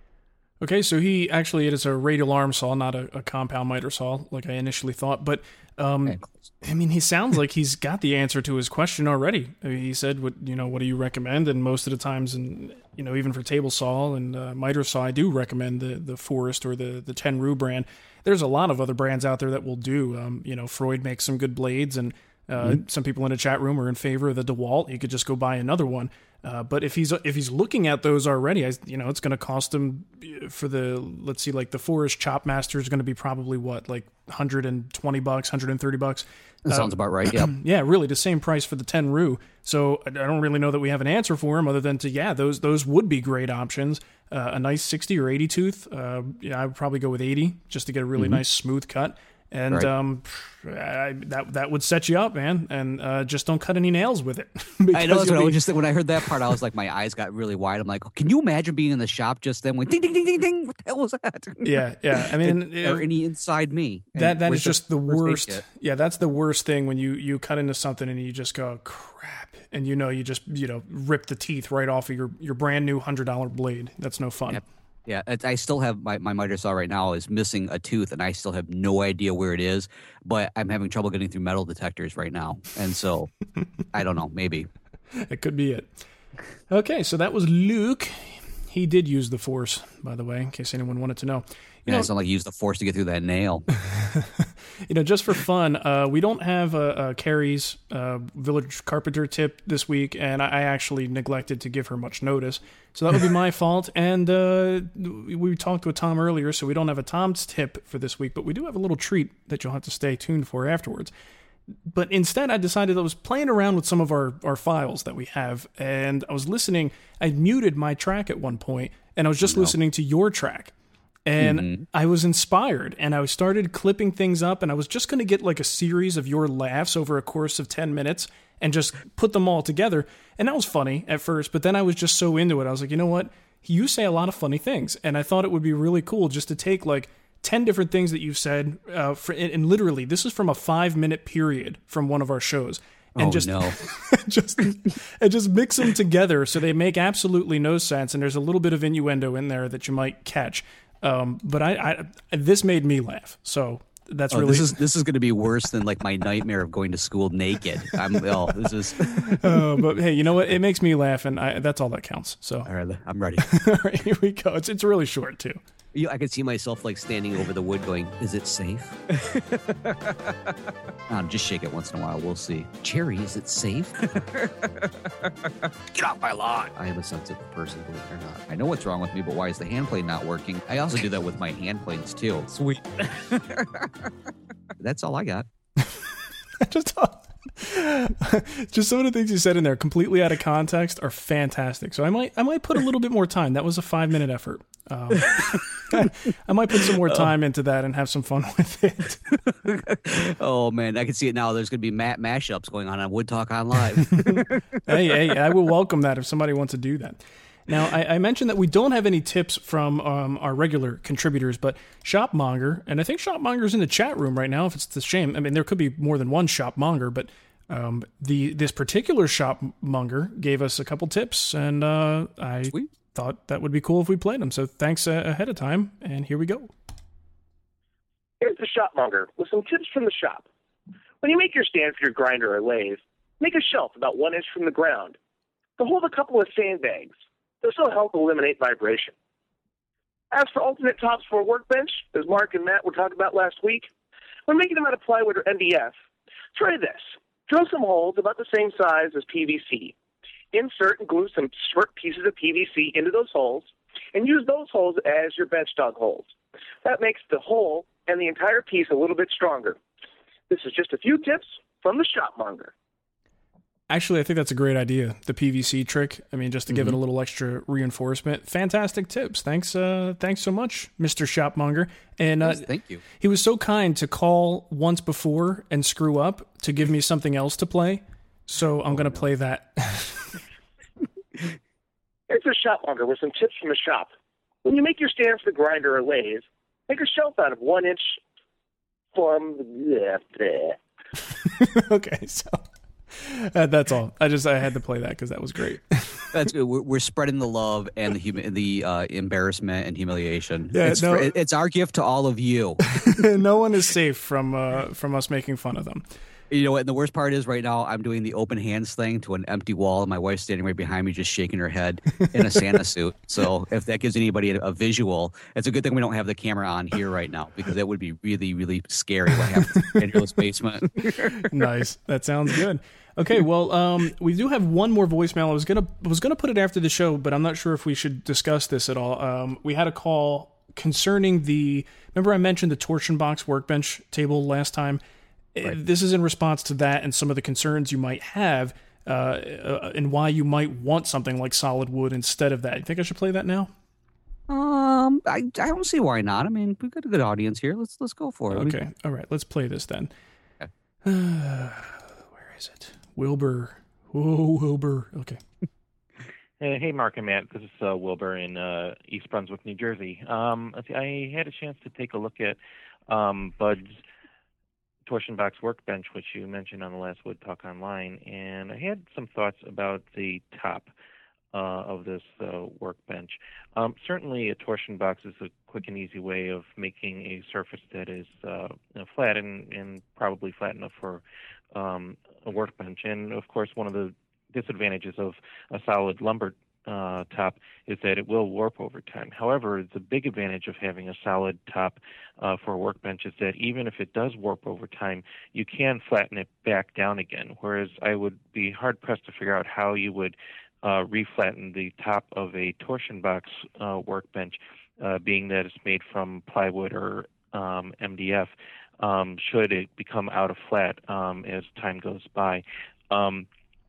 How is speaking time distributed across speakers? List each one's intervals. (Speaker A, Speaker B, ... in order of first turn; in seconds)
Speaker A: 0.6-55.6, 61.6-63.0, 64.2-74.6, 85.3-85.9, 86.7-92.1, 93.9-111.1, 111.9-120.7, 121.3-154.7, 159.2-162.7, 163.4-165.6, 186.6-199.3, 204.2-226.7, 263.9-272.6, 273.2-280.4, 291.3-296.3, 300.7-301.3, 303.0-306.0, 321.3-335.0, 335.6-343.7, 348.5-350.1, 351.1-355.4
Speaker B: 6.1-6.5, 36.7-37.5, 48.2-48.4, 54.9-61.8, 62.4-65.6, 74.5-83.3, 83.9-84.7, 91.9-93.7, 119.4-119.7, 121.4-121.8, 143.2-143.8, 154.3-159.6, 162.7-163.4, 165.9-170.3, 171.1-183.9, 184.8-185.5, 195.3-195.6, 199.5-204.8, 266.7-267.0, 272.4-273.0, 296.3-303.0, 306.5-321.6, 344.5-348.8
Speaker C: 228.4-230.5, 231.2-235.2, 235.8-239.1, 240.3-243.9, 244.5-245.9, 246.5-249.9, 250.5-256.3, 256.8-259.8, 260.5-262.7, 282.3-284.1, 284.6-288.2, 289.1-290.8
Speaker D: 356.6-362.6, 363.1-364.0, 365.1-370.9, 371.5-381.2, 381.8-413.5